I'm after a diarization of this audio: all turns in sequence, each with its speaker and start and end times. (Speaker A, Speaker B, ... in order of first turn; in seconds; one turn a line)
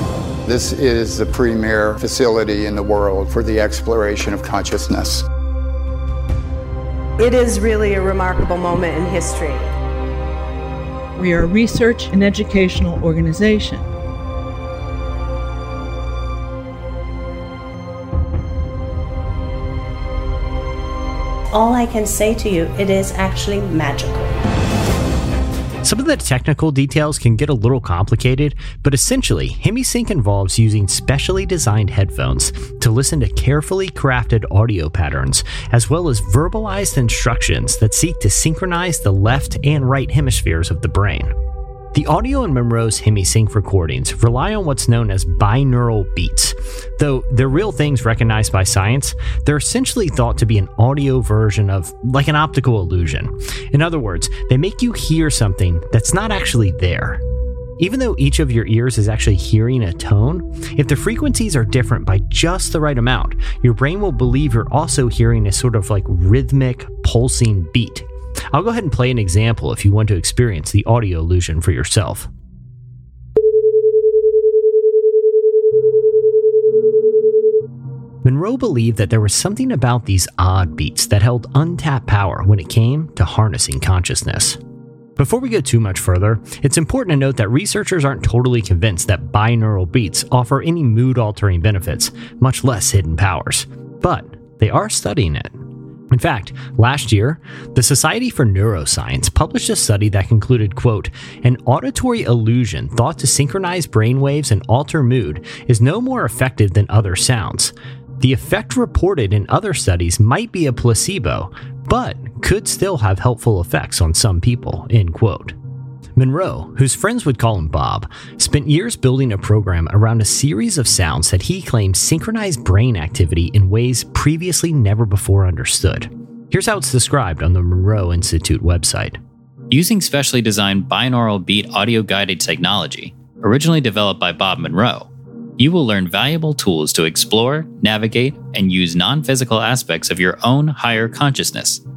Speaker A: 0.5-5.2
Speaker B: 7.2-9.7
Speaker C: 11.2-13.8
Speaker D: 21.5-24.4
Speaker E: 25.8-41.3
Speaker E: 41.9-57.2
Speaker E: 57.8-72.3
Speaker E: 78.2-84.6
Speaker E: 85.2-115.5
Speaker E: 116.2-129.2
Speaker F: 129.7-141.8